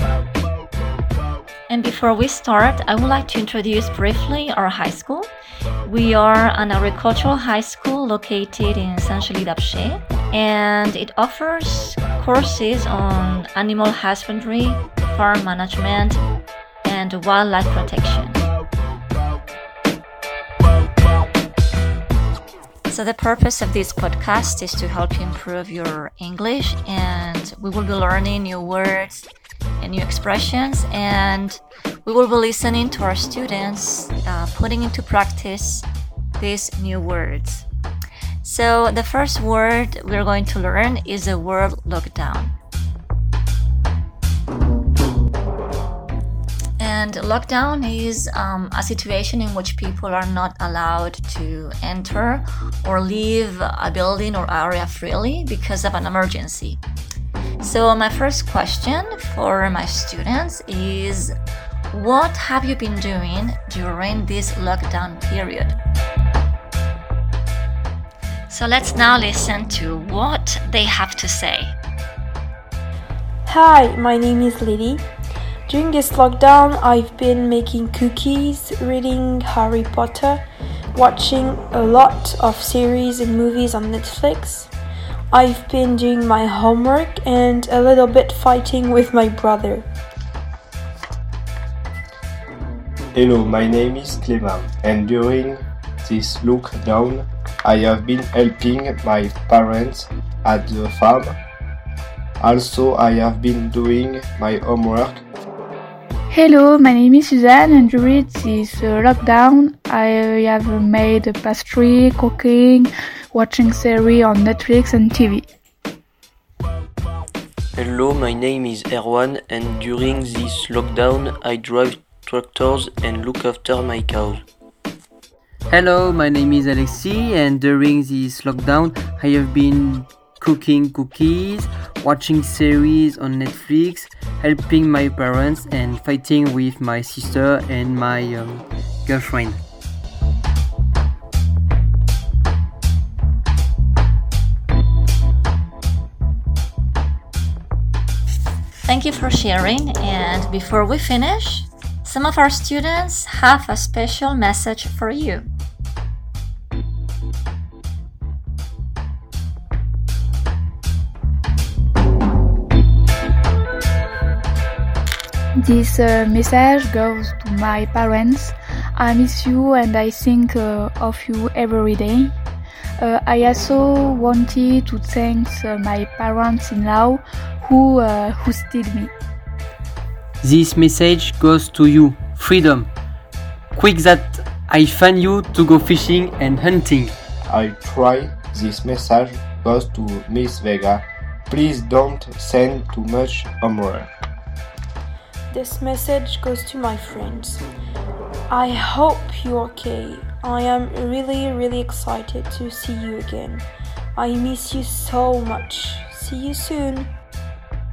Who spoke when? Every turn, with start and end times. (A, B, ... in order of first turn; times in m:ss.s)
0:01.7-0:05.3 A
0:05.8-0:16.2 A
0:16.8-0:18.5 A
0:22.9-0:29.3 A
0:29.8-0:35.8 A
0:36.4-0:37.7 A
0:38.4-0:42.6 A
0:46.8-0:56.8 A
0:57.6-1:01.3 A
1:01.9-1:05.8 A
1:08.5-1:11.8 A
1:13.4-1:15.0 B
1:15.7-1:20.4 B
1:20.9-1:24.7 B
1:25.3-1:29.9 B
1:33.2-1:41.4 C
1:42.4-1:45.2 C
1:46.3-1:55.4 D
1:57.8-2:04.4 E
2:05.7-2:19.6 F
2:28.8-2:35.5 A
2:45.6-2:52.3 D
2:53.0-2:59.1 D
3:00.4-3:02.9 F
3:03.7-3:07.1 F
3:07.5-3:14.1 C
3:15.5-3:17.6 B
3:18.5-3:27.1 B